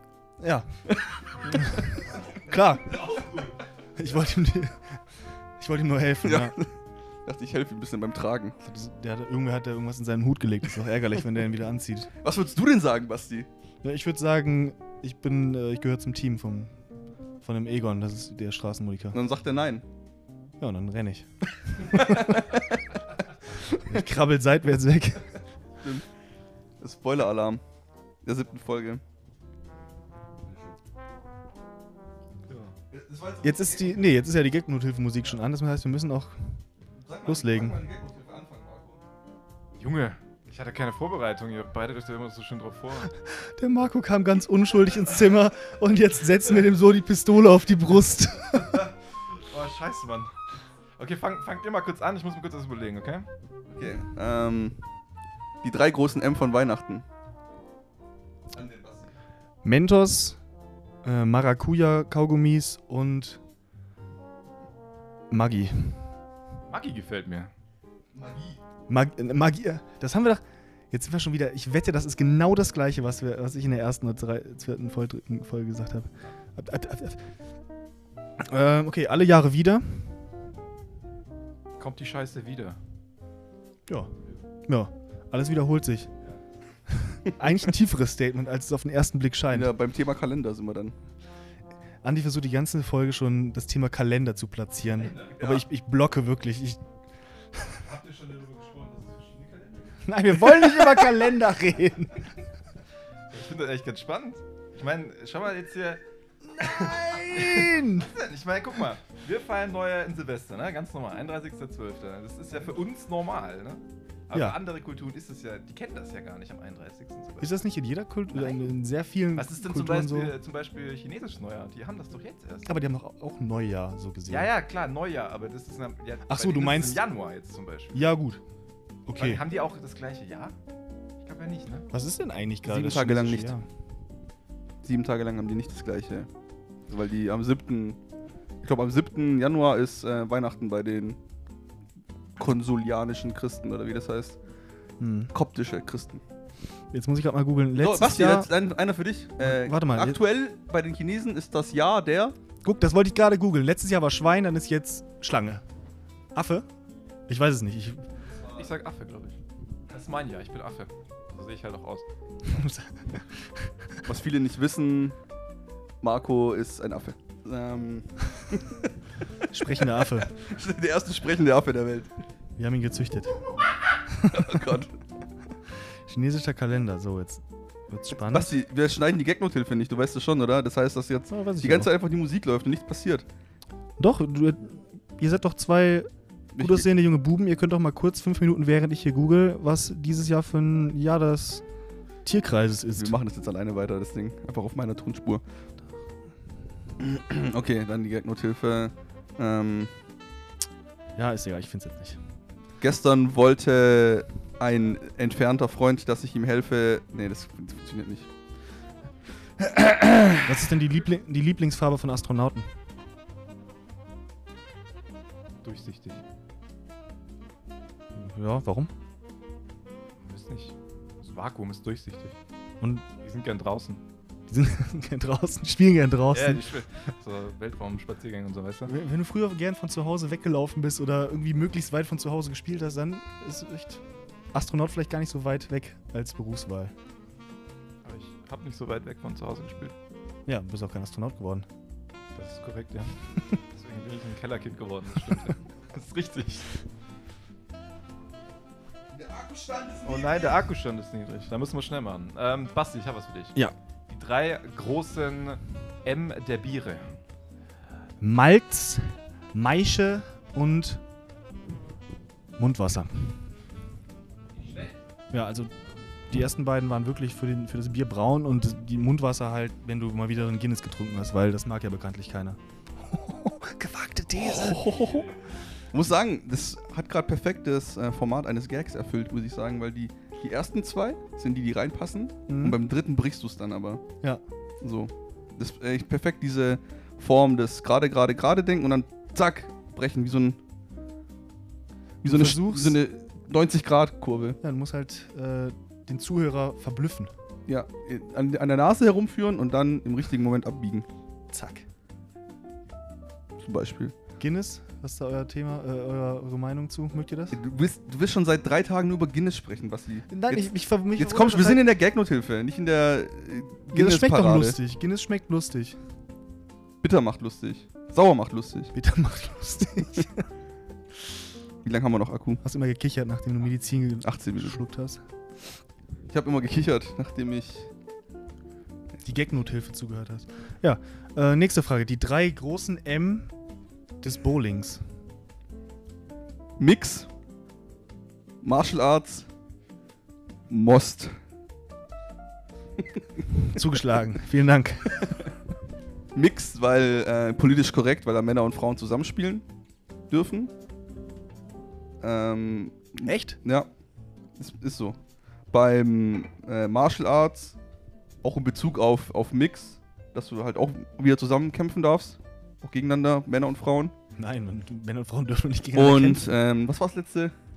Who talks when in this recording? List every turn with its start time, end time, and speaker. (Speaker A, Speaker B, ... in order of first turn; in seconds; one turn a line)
Speaker A: 0.4-0.7
Speaker B: 0.9-2.2
Speaker A: 1.6-3.0
Speaker B: 2.9-3.5
Speaker A: 4.0-6.6
Speaker B: 6.2-8.6
Speaker A: 8.6-12.1
Speaker B: 12.2-13.5
Speaker A: 13.8-16.8
Speaker A: 17.4-19.2
Speaker B: 19.1-19.8
Speaker A: 20.6-22.4
Speaker B: 21.8-22.5
Speaker A: 23.7-25.4
Speaker B: 25.8-26.1
Speaker B: 26.8-27.6
Speaker B: 28.2-29.0
Speaker B: 30.5-30.7
Speaker C: 32.5-32.7
Speaker B: 32.9-34.1
Speaker A: 33.4-36.6
Speaker B: 37.0-39.0
Speaker A: 37.2-37.8
Speaker C: 39.8-43.1
Speaker A: 43.2-48.9
Speaker C: 48.5-53.3
Speaker B: 53.7-54.8
Speaker B: 55.6-57.1
Speaker B: 58.5-59.1
Speaker A: 59.6-60.4
Speaker A: 61.0-63.4
Speaker A: 65.3-66.1
Speaker C: 66.7-67.5
Speaker B: 68.1-68.6
Speaker A: 68.9-77.2
Speaker A: 78.4-80.2
Speaker C: 81.8-82.8
Speaker A: 83.9-84.1
Speaker A: 84.7-86.1
Speaker A: 86.9-89.7
Speaker B: 89.5-91.0
Speaker A: 92.0-96.8
Speaker B: 95.2-95.7
Speaker A: 97.5-97.8
Speaker C: 97.8-101.2
Speaker A: 100.0-102.3
Speaker C: 103.3-106.0
Speaker C: 106.6-117.5
Speaker A: 106.9-108.1
Speaker A: 114.3-114.6
Speaker A: 117.4-120.3
Speaker C: 118.3-118.7
Speaker C: 119.3-122.8
Speaker A: 122.7-124.5
Speaker C: 124.3-128.0
Speaker A: 126.3-127.0
Speaker A: 127.9-128.4
Speaker A: 129.1-129.4
Speaker C: 129.2-130.6
Speaker C: 131.2-131.9
Speaker A: 131.9-133.7
Speaker B: 132.7-133.5
Speaker B: 134.8-136.3
Speaker B: 136.9-138.0
Speaker B: 138.6-141.2
Speaker B: 142.4-144.4
Speaker A: 145.0-145.3
Speaker B: 145.3-146.2
Speaker A: 146.9-148.5
Speaker B: 147.8-152.3
Speaker A: 149.4-150.2
Speaker A: 152.6-155.6
Speaker A: 156.3-156.7
Speaker A: 157.3-158.1
Speaker C: 158.6-162.1
Speaker A: 162.5-163.7
Speaker B: 164.0-165.2
Speaker B: 166.0-168.9
Speaker A: 169.5-170.3
Speaker B: 169.9-172.1
Speaker A: 172.6-173.4
Speaker A: 174.1-174.8
Speaker B: 174.3-174.9
Speaker A: 176.1-178.5
Speaker B: 178.2-183.3
Speaker A: 181.3-181.9
Speaker A: 184.0-191.7
Speaker B: 186.6-186.9
Speaker A: 192.2-193.2
Speaker B: 193.0-195.4
Speaker B: 197.0-200.0
Speaker A: 201.2-202.2
Speaker B: 202.8-208.3
Speaker B: 209.6-210.5
Speaker A: 210.5-212.7
Speaker C: 215.6-216.2
Speaker A: 218.2-218.9
Speaker C: 220.2-222.4
Speaker C: 223.2-224.0
Speaker A: 224.5-226.7
Speaker C: 226.3-228.9
Speaker A: 228.9-236.9
Speaker C: 238.0-239.9
Speaker A: 240.5-241.7
Speaker C: 242.3-246.7
Speaker B: 249.1-250.7
Speaker C: 250.1-253.6
Speaker C: 254.1-257.2
Speaker A: 258.2-261.0
Speaker A: 262.6-263.4
Speaker C: 264.6-265.0
Speaker A: 265.3-274.9
Speaker B: 274.3-275.4
Speaker B: 275.9-284.1
Speaker A: 282.5-282.8
Speaker B: 284.8-290.6
Speaker A: 292.2-293.0
Speaker B: 292.2-294.6
Speaker A: 294.6-297.3
Speaker B: 297.7-301.1
Speaker A: 301.5-301.9
Speaker B: 303.6-304.1
Speaker A: 304.4-307.6
Speaker B: 307.5-314.8
Speaker A: 310.3-311.9
Speaker A: 313.9-316.0
Speaker B: 317.0-318.9
Speaker A: 318.9-320.5
Speaker B: 321.8-322.6
Speaker A: 322.6-325.2
Speaker B: 324.2-324.8
Speaker B: 326.3-327.9
Speaker A: 329.2-333.5
Speaker A: 334.2-335.0
Speaker B: 336.8-337.3
Speaker B: 338.6-339.5
Speaker B: 340.7-341.4
Speaker A: 343.7-345.3
Speaker B: 346.4-349.7
Speaker B: 350.3-350.7
Speaker B: 352.2-353.9
Speaker A: 353.2-353.6
Speaker B: 354.6-357.8
Speaker B: 358.4-364.1
Speaker A: 364.4-366.4
Speaker B: 365.9-367.5